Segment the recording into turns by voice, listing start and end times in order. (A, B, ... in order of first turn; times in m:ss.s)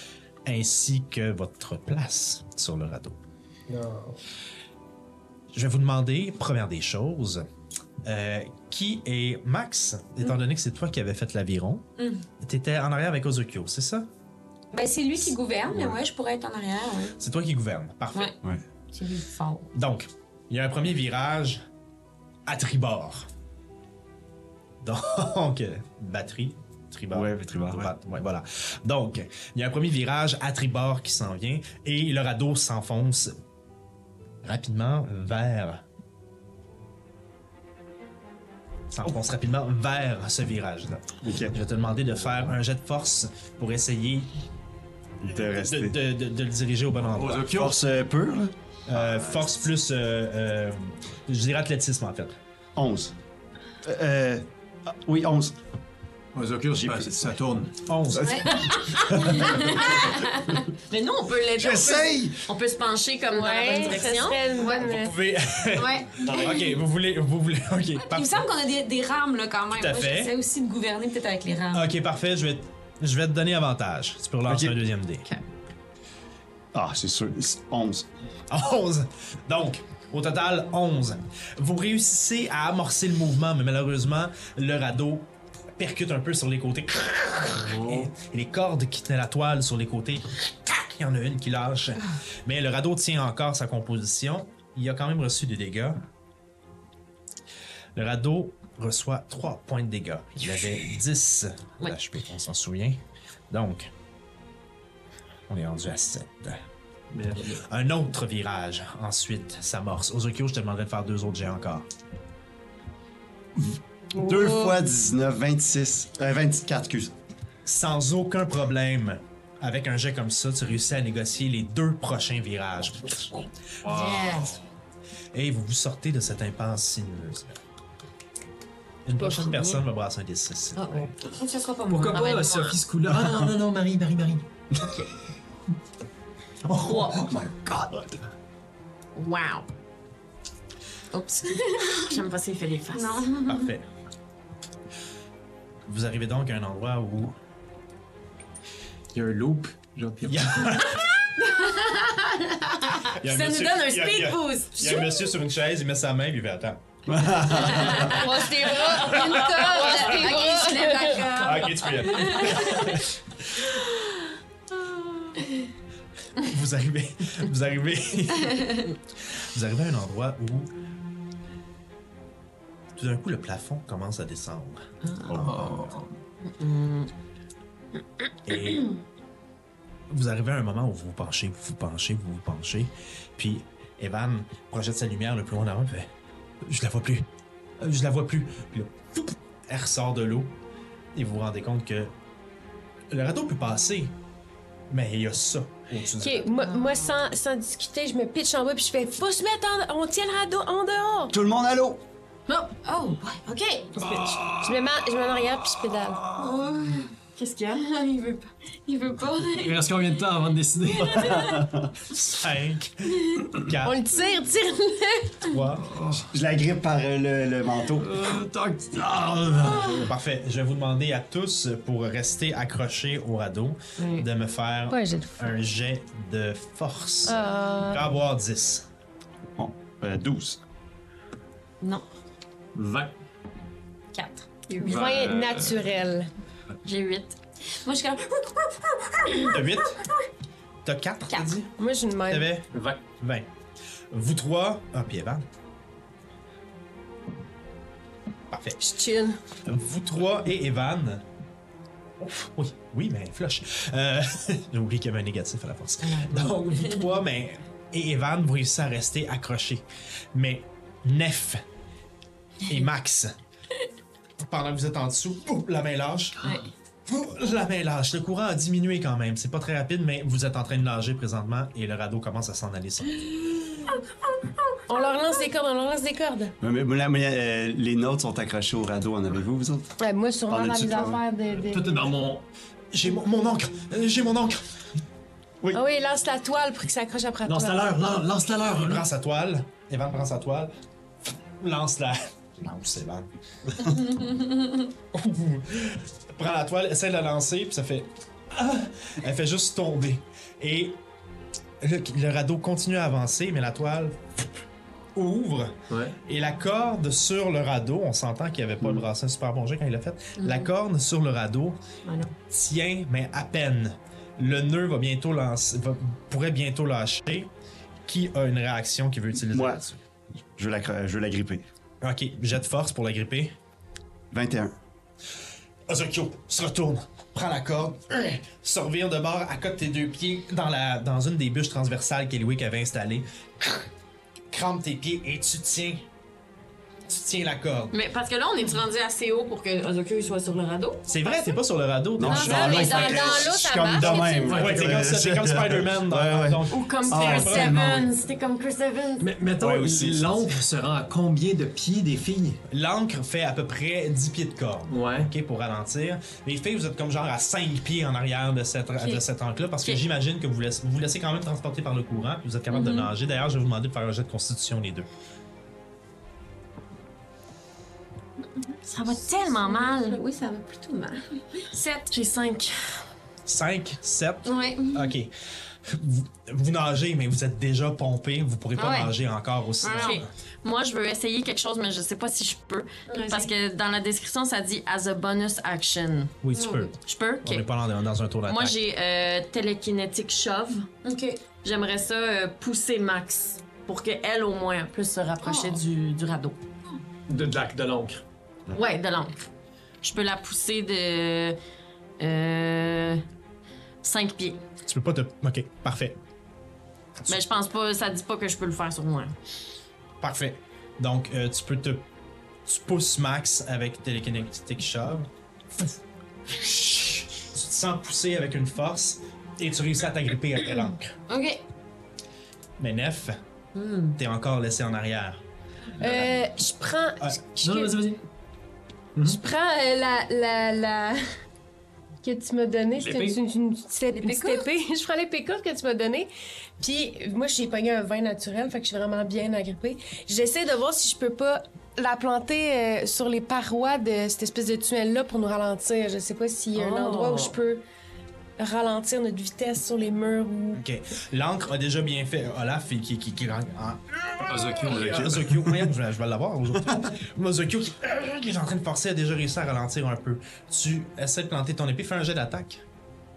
0:00.4-0:03.2 A
0:03.7-0:04.2 B
0:05.5-0:07.4 A
0:08.0-0:11.8 A
0:12.0-0:12.2 C
0:12.4-0:14.1 A
0:14.7-0:17.2 C
0:15.7-0:16.0 A
0:17.2-0:18.4 A
0:18.9-0:19.7 C
0:19.7-0:21.6 A
0:22.4-0:23.3 A
0:24.8-0:33.4 A
0:27.1-0:27.9 D
0:34.4-0:35.8 A
0:38.9-0:44.3 A
0:41.2-0:41.5 D
0:45.2-0:46.0 D
0:45.2-0:47.4 A
0:47.0-0:47.8 B
0:47.5-0:49.6 D
0:48.9-0:52.4 A
0:52.7-0:53.1 D
0:53.8-0:55.5 D
0:56.3-0:57.8 B
0:57.8-0:58.8 A
0:58.1-1:00.2 D
0:58.2-1:00.1 C
0:58.8-1:05.0 E
1:01.6-1:02.5 D
1:03.3-1:05.1 F
1:04.7-1:08.4 A
1:05.7-1:06.7 C
1:08.0-1:11.9 C
1:09.8-1:10.3 A
1:11.7-1:15.3 A
1:14.4-1:14.8 D
1:16.7-1:18.1 D
1:18.5-1:36.0 A
1:27.6-1:28.1 B
1:37.9-1:43.0 A
1:43.5-1:43.9 A
1:45.5-1:46.6 A
1:47.1-1:47.6 B
1:47.6-1:51.9 A
1:53.6-1:57.1 D
1:57.6-2:03.5 A
2:03.8-2:04.5 B
2:03.8-2:04.6 C
2:05.3-2:07.6 A
2:09.0-2:11.1 A
2:09.2-2:09.8 E
2:10.8-2:12.4 C
2:11.9-2:14.5 B
2:12.1-2:12.8 E
2:16.8-2:17.3 E
2:16.8-2:18.2 D
2:16.9-2:17.2 A
2:19.1-2:19.7 E
2:21.1-2:23.4 E
2:21.5-2:22.2 C
2:22.9-2:23.7 C
2:23.4-2:23.9 A
2:25.8-2:27.4 A
2:29.1-2:30.8 B
2:30.2-2:31.0 A
2:31.4-2:32.2 E
2:32.8-2:35.1 E
2:33.2-2:38.1 A
2:34.8-2:35.1 C
2:37.1-2:38.2 D
2:37.5-2:41.6 E
2:38.1-2:41.2 F
2:38.2-2:42.9 C
2:39.1-2:39.4 A
2:41.3-2:43.6 A
2:42.2-2:42.9 E
2:43.8-2:44.0 E
2:44.8-2:45.4 E
2:46.4-2:50.7 A
2:53.0-2:54.8 A
2:55.0-2:55.4 E
2:55.3-2:55.7 D
2:55.3-2:56.1 B
2:56.4-2:57.1 E
2:58.4-2:59.0 A
3:00.1-3:06.1 A
3:06.6-3:07.2 A
3:07.8-3:10.6 A
3:11.1-3:12.1 A
3:13.1-3:14.1 A
3:14.9-3:16.6 A
3:16.2-3:21.3 F
3:21.3-3:22.0 D
3:22.5-3:24.2 C
3:24.0-3:25.1 B
3:24.5-3:26.2 F
3:26.4-3:27.1 C
3:27.4-3:28.5 E
3:28.9-3:29.8 C
3:29.5-3:31.6 B
3:31.1-3:31.5 C
3:31.2-3:31.9 D
3:32.1-3:34.1 A
3:33.8-3:35.4 F
3:35.4-3:36.0 A
3:35.8-3:36.3 B
3:36.3-3:38.1 D
3:38.0-3:40.1 B
3:40.0-3:48.8 A
3:44.9-3:45.5 F
3:47.3-3:48.2 F
3:49.6-3:50.6 D
3:52.7-3:53.1 B
3:54.1-3:55.1 E
3:54.8-3:56.3 F
3:54.8-3:55.9 B
3:56.8-3:57.4 E
3:57.8-3:59.6 C
3:59.5-4:00.0 A
4:00.8-4:01.7 A
4:01.8-4:02.5 F
4:02.3-4:03.5 A
4:02.7-4:03.0 B
4:04.1-4:05.4 A
4:08.5-4:08.8 A
4:08.8-4:09.4 F
4:09.6-4:11.2 A
4:12.2-4:21.6 A
4:16.2-4:17.0 E
4:22.6-4:23.3 A
4:24.4-4:26.5 A
4:27.0-4:33.3 A
4:34.9-4:36.5 F
4:36.6-4:39.9 D
4:40.0-4:41.9 F
4:40.5-4:41.2 D
4:41.5-4:42.4 B
4:42.9-4:44.6 A
4:45.7-4:47.8 F
4:47.4-4:49.0 B
4:48.8-4:50.7 A
4:51.6-4:54.1 A
4:55.1-5:01.0 A
5:01.8-5:04.2 A
5:05.1-5:11.8 A
5:05.9-5:06.2 B
5:12.0-5:12.3 C
5:12.5-5:17.5 A
5:18.0-5:20.0 A
5:19.5-5:19.8 D
5:20.5-5:21.6 D
5:22.0-5:23.5 A
5:24.3-5:24.7 D
5:25.9-5:33.9 A
5:34.5-5:36.0 A
5:37.1-5:37.9 A
5:37.9-5:41.1 E
5:41.1-5:43.3 A
5:42.2-5:48.1 D
5:42.2-5:44.8 F
5:42.6-5:43.4 E
5:43.9-5:47.9 A
5:44.5-5:45.1 B
5:46.7-5:49.3 E
5:49.2-5:52.6 B
5:49.8-5:50.1 A
5:49.8-5:50.2 D
5:52.7-6:05.1 A
5:54.9-5:55.3 B
6:02.7-6:03.1 E
6:08.8-6:10.2 E
6:09.1-6:12.1 C
6:12.1-6:13.0 E
6:13.4-6:15.3 A
6:14.4-6:15.1 C
6:15.8-6:20.3 A
6:18.8-6:19.1 C
6:19.8-6:26.4 E
6:19.9-6:20.2 C
6:23.1-6:23.5 C
6:26.4-6:28.8 A
6:26.5-6:26.9 C
6:27.0-6:27.7 E
6:28.4-6:30.9 E
6:31.0-6:31.4 C
6:31.6-6:36.6 E
6:35.4-6:35.8 C
6:37.3-6:38.2 B
6:38.7-6:39.4 E
6:40.0-6:41.6 E
6:42.2-6:43.2 E
6:44.0-6:44.6 E
6:44.8-6:46.2 A
6:47.3-6:49.3 E
6:50.2-6:52.0 A
6:52.6-6:55.3 A
6:56.5-7:01.2 A
7:01.3-7:01.6 C
7:02.8-7:03.4 A
7:03.7-7:04.2 C
7:04.2-7:05.4 A
7:06.0-7:07.9 F
7:06.0-7:06.4 A
7:07.2-7:07.6 A
7:07.6-7:08.2 B
7:09.1-7:09.4 B
7:09.2-7:11.2 F
7:12.2-7:27.8 F
7:13.0-7:13.4 B
7:14.2-7:14.6 C
7:26.7-7:27.6 E
7:28.6-7:30.8 F
7:30.7-7:42.8 A
7:34.4-7:35.8 B